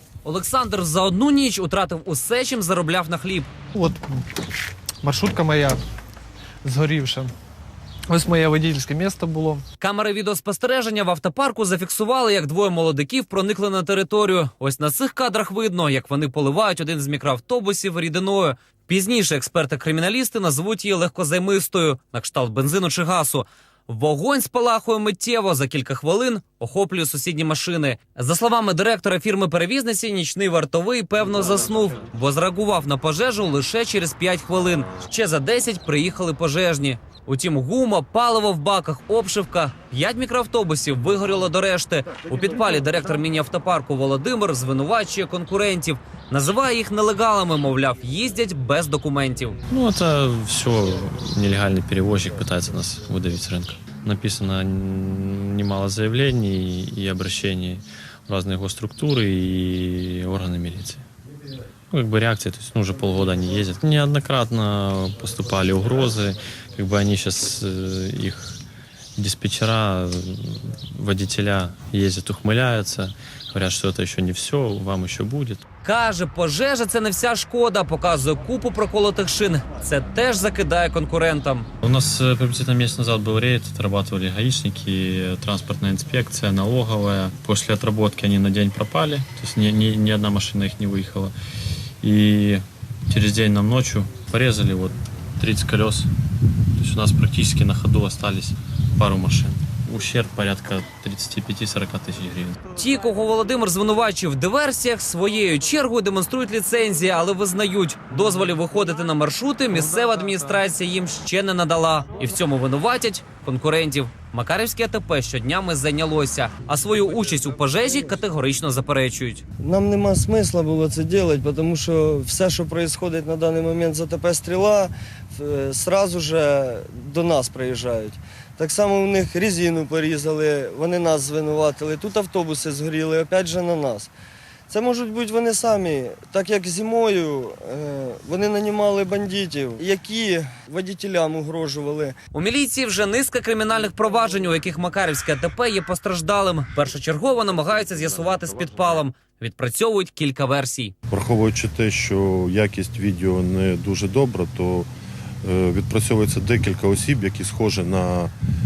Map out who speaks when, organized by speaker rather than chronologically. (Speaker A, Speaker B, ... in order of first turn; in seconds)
Speaker A: 0.2-3.5, 9.8-49.6, 75.8-81.7, 102.8-119.4, 142.3-150.9
Speaker B: 3.7-4.2, 5.0-5.8, 6.6-7.3, 8.1-9.6
Speaker C: 49.7-61.0, 61.9-68.6, 69.2-75.6, 81.8-91.3, 92.0-96.1, 96.8-102.6
Speaker D: 119.6-134.1, 134.7-142.2
Speaker E: 151.1-154.9, 155.4-158.3